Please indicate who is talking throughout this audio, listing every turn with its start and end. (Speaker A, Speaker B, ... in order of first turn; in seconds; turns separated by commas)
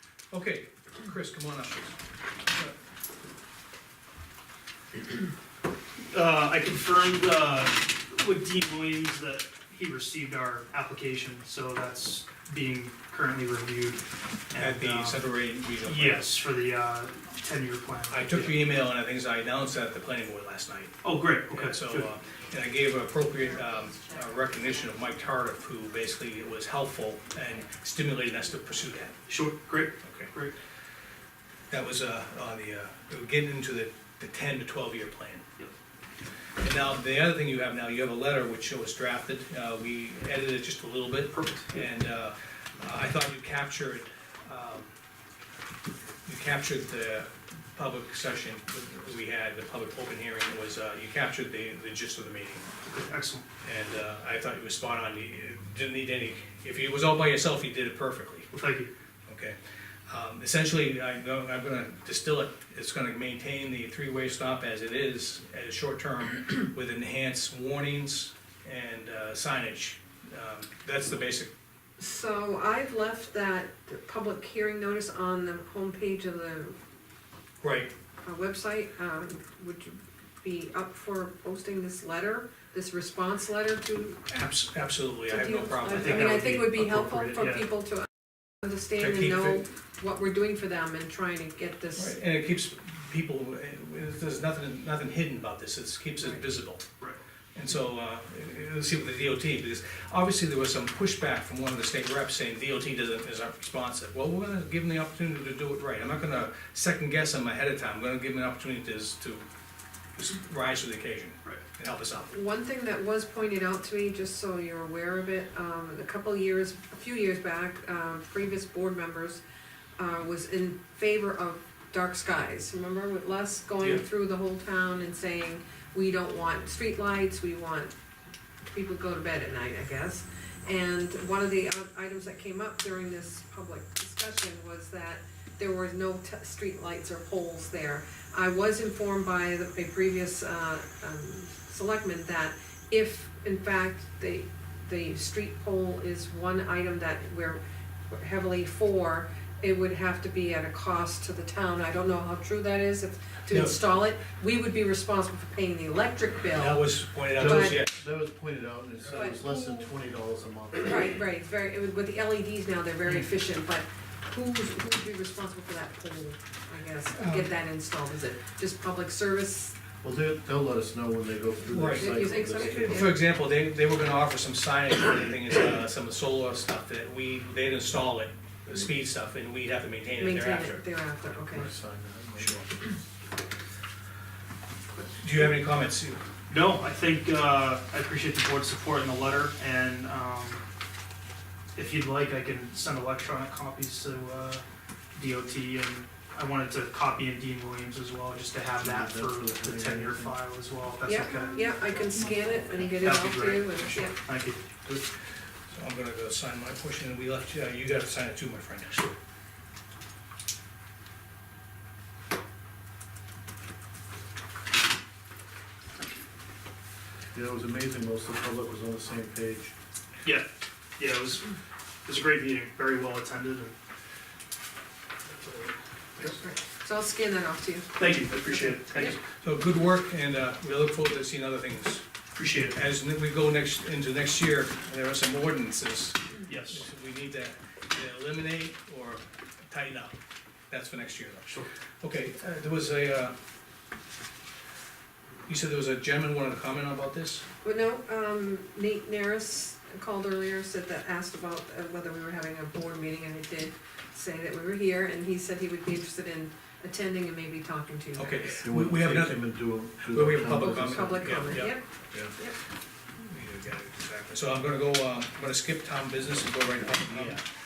Speaker A: 0.3-1.9, Speaker B: 6.1-15.3, Speaker A: 14.6-16.4, Speaker B: 15.8-18.7, Speaker A: 18.1-20.9, Speaker B: 21.0-22.1, Speaker A: 21.5-29.2, Speaker C: 23.9-24.6, Speaker B: 29.3-30.5, Speaker A: 30.0-30.3, Speaker A: 31.7-35.4, Speaker A: 36.6-44.9, Speaker B: 41.3-41.7, Speaker A: 46.2-52.6, Speaker B: 52.9-53.4, Speaker A: 53.6-58.5, Speaker B: 58.5-58.9, Speaker A: 59.3-59.5, Speaker A: 60.1-71.5, Speaker C: 72.0-76.8, Speaker A: 77.6-77.9, Speaker C: 78.2-84.2, Speaker A: 84.3-86.4, Speaker C: 85.3-88.1, Speaker B: 85.9-87.7, Speaker C: 88.6-92.1, Speaker A: 89.0-89.6, Speaker A: 92.0-96.8, Speaker A: 97.5-109.5, Speaker A: 110.2-112.3, Speaker C: 112.3-119.4, Speaker C: 120.0-127.9, Speaker C: 128.7-147.6, Speaker C: 148.1-157.8, Speaker A: 153.5-153.9, Speaker A: 156.5-158.0, Speaker D: 157.3-161.2, Speaker C: 159.1-159.8, Speaker C: 160.8-169.8, Speaker A: 167.2-167.5, Speaker D: 170.0-173.0, Speaker A: 171.7-180.8, Speaker C: 171.8-173.2, Speaker C: 180.2-181.7, Speaker D: 181.5-182.7, Speaker A: 182.4-182.7, Speaker C: 184.9-185.6, Speaker A: 185.2-186.2, Speaker B: 186.5-190.6, Speaker B: 191.7-194.6, Speaker B: 195.1-201.6, Speaker D: 198.8-200.4, Speaker C: 201.0-204.1, Speaker B: 203.0-204.6, Speaker A: 205.7-209.1, Speaker D: 217.3-219.7, Speaker B: 220.2-221.5, Speaker B: 222.0-223.7, Speaker C: 226.4-228.0, Speaker B: 228.0-229.2, Speaker A: 229.3-232.0, Speaker B: 232.3-232.8, Speaker A: 232.7-240.1, Speaker B: 236.5-236.8, Speaker A: 240.7-243.3, Speaker A: 245.5-247.4, Speaker C: 247.6-258.6, Speaker A: 258.1-261.8, Speaker D: 258.6-261.5, Speaker C: 260.4-262.6, Speaker A: 263.2-267.4